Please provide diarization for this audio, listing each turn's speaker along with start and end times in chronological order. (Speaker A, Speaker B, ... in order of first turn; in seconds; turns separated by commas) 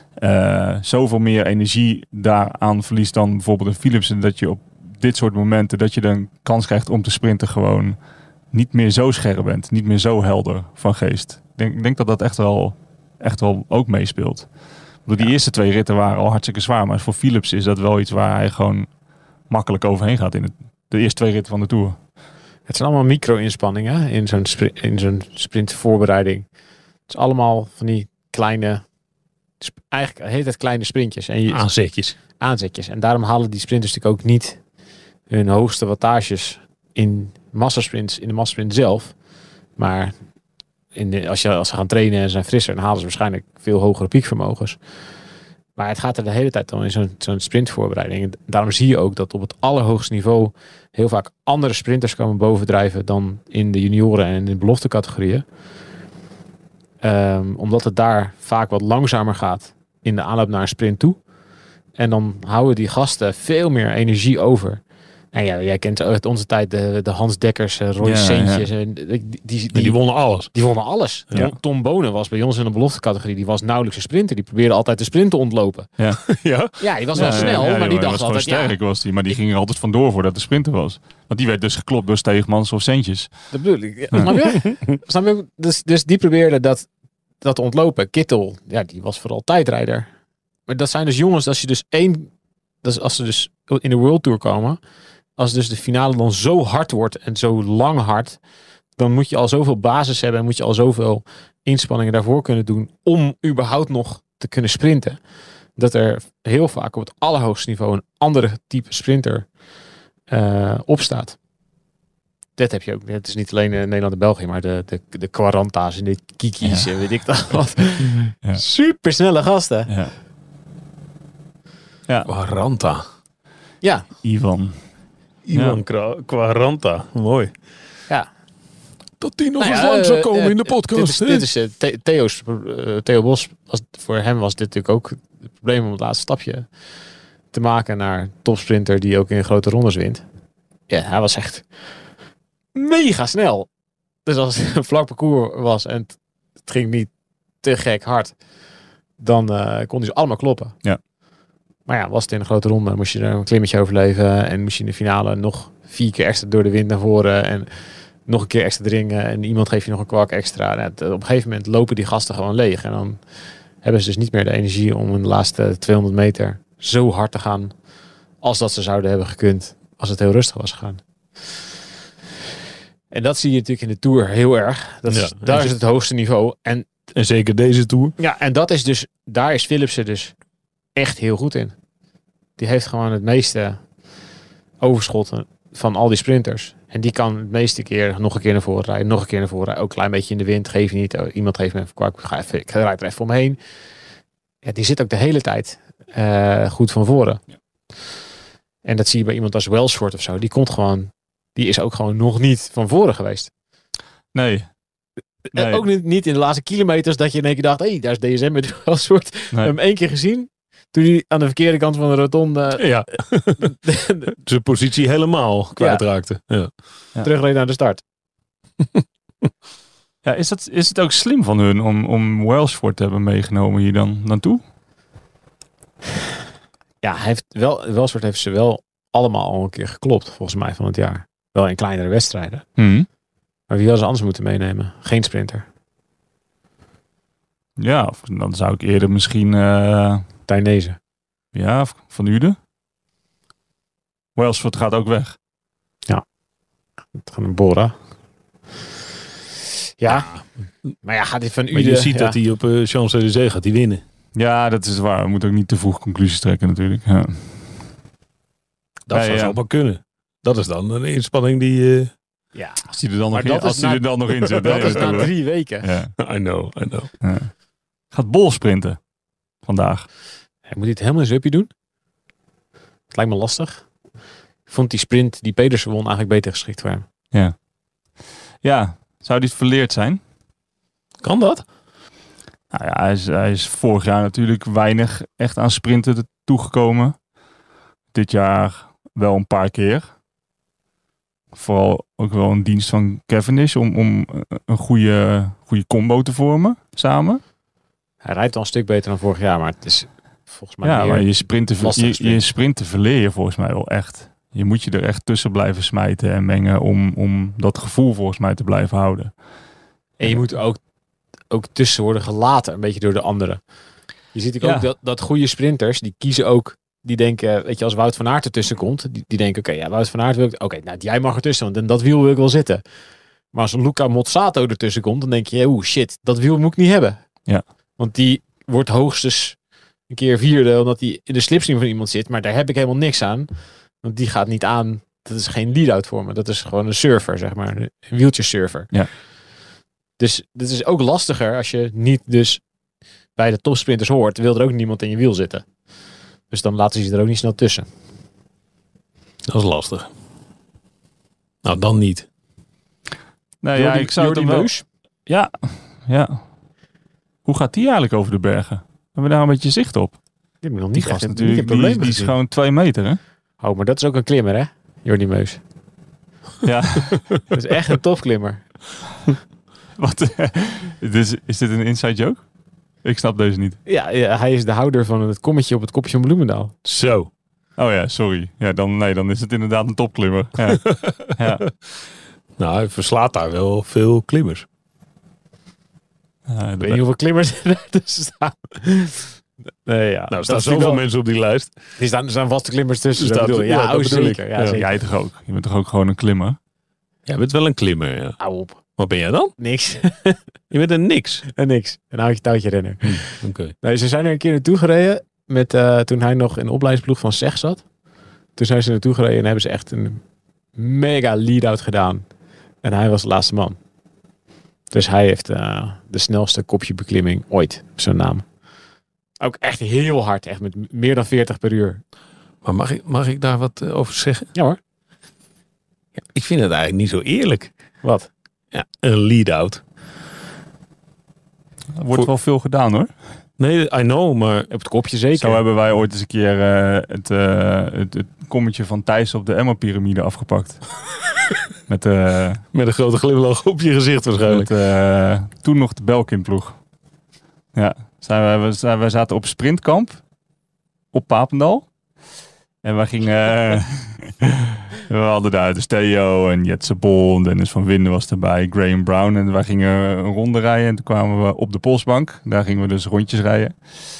Speaker A: 0.2-8.0, Speaker A: 8.5-14.5, Speaker A: 15.1-18.9, Speaker A: 19.5-22.0, Speaker B: 22.7-26.5, Speaker B: 27.1-28.8, Speaker B: 29.6-31.7, Speaker C: 31.5-32.2, Speaker B: 32.4-34.6, Speaker B: 35.3-39.1, Speaker B: 39.8-40.1, Speaker B: 40.9-44.8, Speaker B: 45.8-55.5, Speaker B: 57.0-61.2, Speaker B: 62.0-75.9, Speaker A: 68.0-68.7, Speaker C: 69.7-70.5, Speaker A: 76.0-76.2, Speaker C: 76.3-77.7, Speaker B: 76.8-78.8, Speaker A: 77.2-83.3, Speaker B: 83.5-86.9, Speaker B: 87.4-90.1, Speaker B: 90.7-92.3, Speaker B: 92.8-94.8, Speaker B: 95.4-98.4, Speaker B: 99.0-105.2, Speaker B: 105.8-109.5, Speaker B: 110.3-111.4, Speaker B: 112.6-119.9, Speaker A: 116.6-116.9, Speaker A: 119.9-120.1, Speaker C: 122.3-123.0, Speaker B: 123.8-124.1, Speaker A: 124.2-124.8, Speaker C: 125.5-127.5, Speaker A: 125.5-125.8, Speaker C: 129.2-131.5, Speaker B: 129.6-136.7, Speaker B: 137.5-140.2, Speaker B: 140.9-141.7, Speaker B: 142.8-143.7, Speaker B: 144.2-147.1, Speaker B: 147.6-148.3, Speaker B: 149.2-150.8, Speaker B: 151.9-157.7, Speaker B: 158.3-163.2, Speaker B: 163.8-167.7, Speaker B: 168.4-171.0, Speaker B: 173.1-176.9, Speaker C: 175.1-175.8, Speaker C: 177.1-178.2, Speaker B: 178.2-180.3, Speaker B: 180.9-181.8, Speaker B: 182.6-183.8, Speaker B: 184.8-193.6, Speaker B: 194.6-197.4, Speaker B: 198.8-203.5, Speaker A: 204.3-204.7, Speaker B: 205.5-212.9, Speaker A: 205.5-205.8, Speaker C: 212.8-213.7, Speaker B: 213.6-214.3, Speaker C: 214.4-216.7, Speaker B: 215.8-216.0, Speaker B: 217.2-218.0, Speaker A: 220.2-224.6, Speaker B: 227.0-232.6, Speaker A: 232.8-233.1, Speaker B: 233.7-235.7, Speaker A: 237.8-240.2, Speaker B: 240.5-241.0, Speaker A: 241.5-242.6, Speaker A: 244.4-245.4, Speaker B: 247.2-247.9, Speaker B: 250.0-250.3, Speaker C: 250.1-250.4, Speaker B: 251.0-252.4, Speaker C: 251.7-254.0, Speaker A: 254.3-257.6, Speaker C: 259.1-262.1, Speaker A: 259.1-259.6, Speaker B: 262.5-265.9, Speaker A: 262.9-266.1, Speaker C: 264.7-265.2, Speaker C: 266.2-267.1, Speaker A: 267.2-267.5, Speaker A: 268.1-269.0, Speaker A: 269.6-270.1, Speaker B: 270.7-271.7, Speaker B: 273.1-273.9, Speaker B: 274.7-277.1, Speaker A: 278.6-280.2, Speaker C: 281.2-281.6, Speaker A: 282.7-287.2, Speaker A: 288.1-290.1, Speaker A: 291.5-297.4, Speaker B: 298.2-302.4, Speaker A: 300.8-309.3, Speaker B: 310.2-310.8, Speaker B: 311.5-313.6, Speaker B: 314.3-322.8, Speaker A: 314.6-314.9, Speaker B: 323.5-327.2, Speaker B: 328.0-329.6, Speaker B: 330.1-338.9, Speaker B: 340.2-342.6, Speaker B: 343.4-345.6, Speaker B: 346.5-347.9, Speaker C: 349.5-350.1, Speaker C: 351.6-352.3, Speaker A: 353.6-354.7, Speaker B: 353.8-354.8, Speaker A: 355.3-356.4, Speaker A: 357.4-360.2, Speaker B: 360.6-362.3, Speaker A: 360.9-363.2, Speaker B: 363.6-365.6, Speaker A: 366.6-367.4, Speaker B: 367.5-368.7, Speaker A: 370.0-372.4, Speaker A: 373.0-373.8, Speaker B: 373.9-376.8, Speaker C: 376.9-377.3, Speaker A: 377.8-381.7, Speaker C: 380.7-381.3, Speaker C: 382.6-384.7, Speaker A: 386.5-387.0, Speaker B: 386.8-389.3, Speaker B: 389.9-391.0, Speaker C: 390.3-391.7, Speaker B: 392.0-394.9, Speaker C: 393.2-394.8, Speaker A: 394.7-396.6, Speaker C: 397.3-398.4, Speaker B: 398.4-398.8, Speaker C: 399.0-399.5, Speaker B: 399.6-400.4, Speaker C: 400.7-401.4, Speaker B: 401.5-407.8, Speaker C: 403.0-403.7, Speaker B: 408.6-410.2, Speaker B: 410.8-412.2, Speaker B: 412.8-413.8, Speaker B: 414.9-418.5, Speaker B: 419.4-422.0, Speaker C: 422.6-424.5, Speaker C: 426.2-427.7, Speaker B: 428.0-428.3, Speaker C: 428.7-429.8, Speaker A: 431.9-433.1, Speaker C: 433.6-434.7, Speaker B: 434.7-435.6, Speaker A: 435.4-440.9, Speaker A: 441.9-442.6, Speaker C: 442.7-444.7, Speaker A: 444.5-446.8, Speaker A: 447.7-450.2, Speaker A: 451.1-451.9, Speaker A: 452.8-463.8